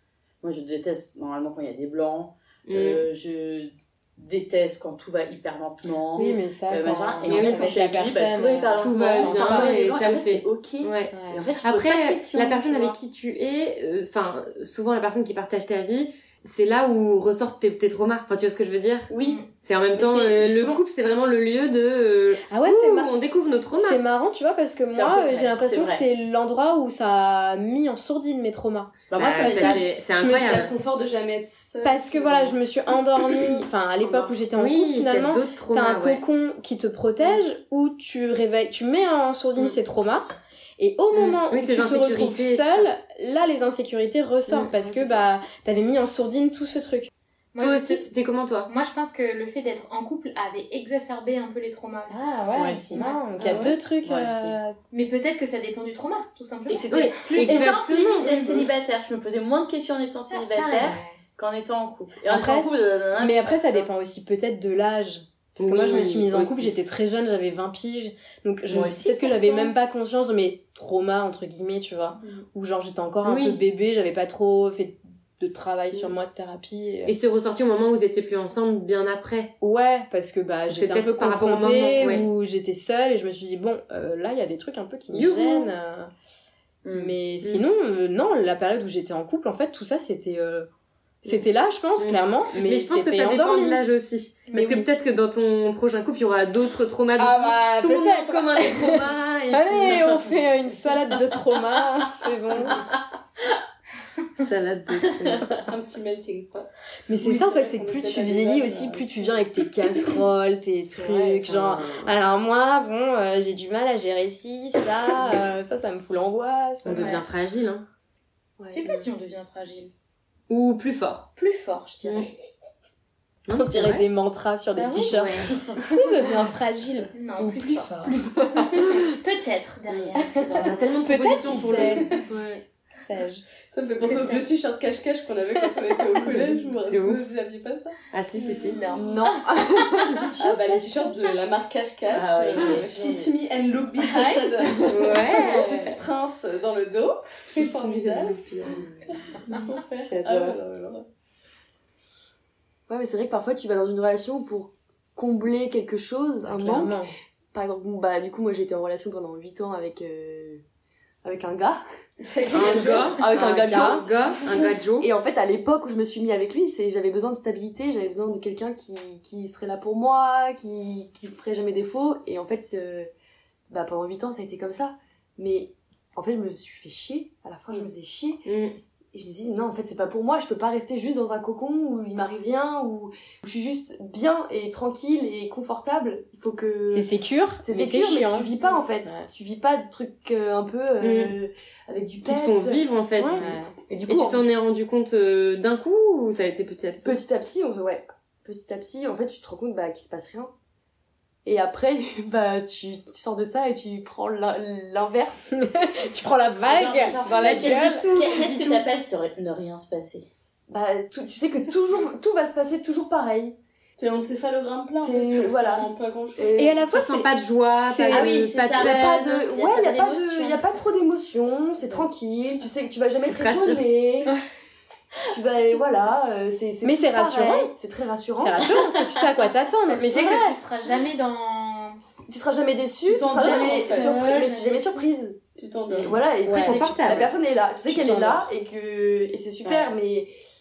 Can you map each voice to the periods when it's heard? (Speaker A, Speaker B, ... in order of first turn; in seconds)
Speaker A: 0.4-13.0, 19.1-19.4, 24.9-26.1, 29.1-29.9, 52.5-54.5, 56.7-63.9, 66.5-66.8, 68.7-69.7, 86.8-87.2, 105.1-105.6, 142.1-143.3, 147.9-149.2, 150.0-150.6, 206.7-210.3, 218.3-220.7, 233.4-233.8, 235.9-236.3, 239.6-239.9
Speaker B: 2.7-3.0, 7.2-7.9, 8.8-24.0, 29.1-30.7, 34.5-36.2, 41.1-42.9, 44.5-45.1, 47.6-48.7, 56.9-58.6, 65.6-66.6, 73.2-73.6, 77.0-79.5, 80.7-82.3, 85.1-85.7, 92.0-100.3, 104.3-105.6, 111.3-111.8, 116.8-117.8, 120.5-121.3, 122.0-122.3, 123.5-124.1, 130.6-132.4, 136.9-137.2, 138.1-138.8, 144.8-146.0, 147.5-148.3, 150.0-150.3, 162.5-165.1, 178.4-178.7, 191.0-191.3, 192.2-193.5, 194.1-197.2, 216.9-219.1, 223.3-223.8, 236.5-237.3
Speaker C: 6.1-9.8, 11.1-11.4, 20.3-20.8, 22.5-23.1, 23.7-30.7, 31.8-47.1, 52.1-54.8, 62.2-77.1, 79.6-86.1, 86.9-90.7, 91.2-93.8, 94.5-94.9, 97.2-102.8, 107.1-117.2, 123.5-128.9, 130.2-132.2, 132.9-133.4, 135.6-136.4, 138.9-141.1, 156.4-157.1, 163.6-164.1, 186.9-189.3, 193.3-193.7, 205.5-208.8, 216.6-217.3, 217.8-218.4, 226.8-227.7, 228.4-230.5, 236.4-237.3, 237.8-238.5
Speaker D: 29.4-32.6, 33.2-34.4, 53.4-53.7, 105.7-109.4, 131.7-132.4, 133.7-139.0, 140.2-151.1, 162.4-163.2, 214.0-216.7, 233.1-234.3, 235.6-236.2
Speaker E: 47.5-48.1, 48.7-53.6, 54.9-58.5, 60.3-61.2, 94.5-94.8, 116.9-117.2, 118.7-119.9, 121.3-122.3, 124.7-125.9, 127.1-130.8, 134.0-134.5, 138.6-140.2, 162.6-163.1, 229.9-232.0, 233.3-235.0
Speaker F: 111.0-111.7, 118.6-119.0, 139.2-141.0, 152.9-157.0, 157.5-160.6, 161.2-161.8, 162.5-173.1, 173.7-178.4, 179.1-187.1, 187.6-194.4, 197.0-200.5, 201.4-205.7, 210.7-213.6, 215.0-216.8, 218.1-224.4, 225.3-228.7, 230.1-230.6, 232.3-235.4, 235.9-240.3